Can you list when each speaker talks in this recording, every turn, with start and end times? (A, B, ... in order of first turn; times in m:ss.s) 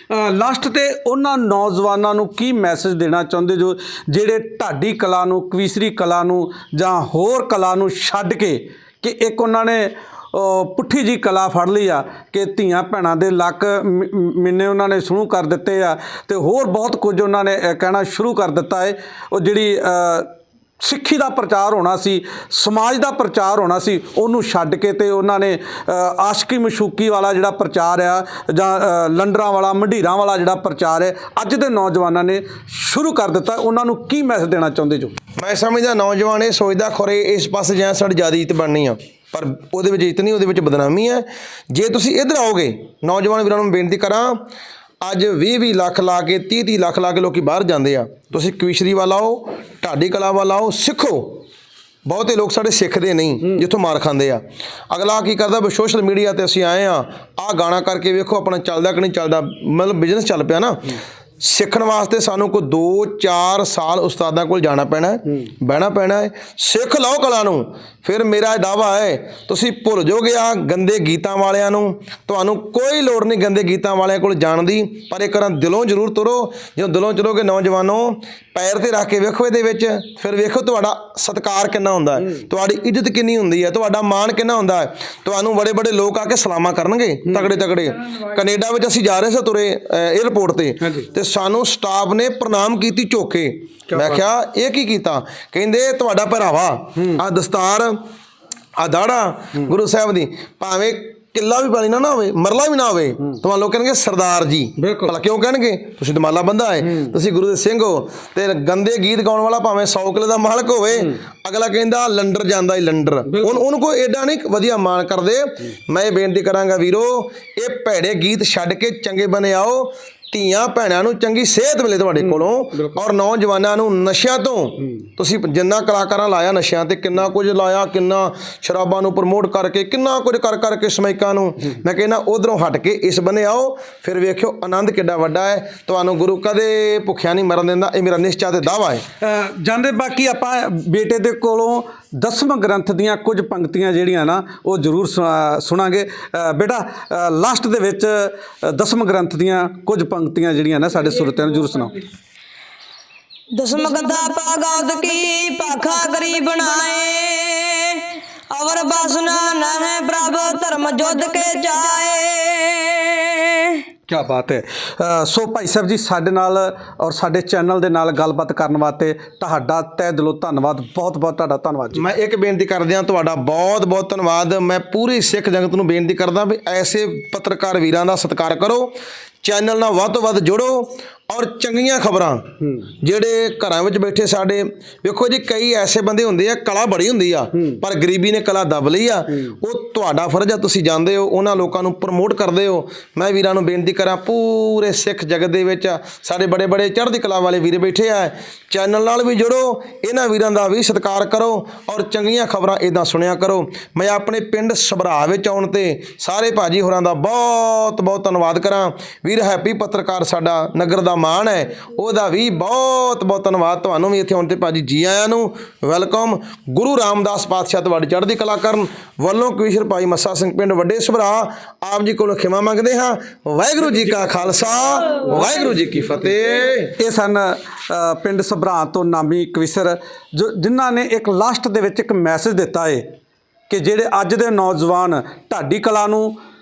0:00.1-0:35.2 A
0:35.4-0:44.5 B
0:45.0-0:51.4 B
0:52.1-1:38.0 B
1:30.8-1:31.1 A
1:33.9-1:34.3 A
1:38.8-2:19.0 B
1:44.8-1:45.2 A
1:53.3-1:53.6 A
2:02.2-2:03.0 A
2:19.2-2:32.0 A
2:33.5-2:43.8 C
2:44.1-2:52.1 A
2:52.0-3:46.9 B
3:02.6-3:02.9 A
3:07.6-3:07.8 A
3:43.8-3:45.8 A
3:47.0-3:53.1 A
3:53.7-3:56.4 A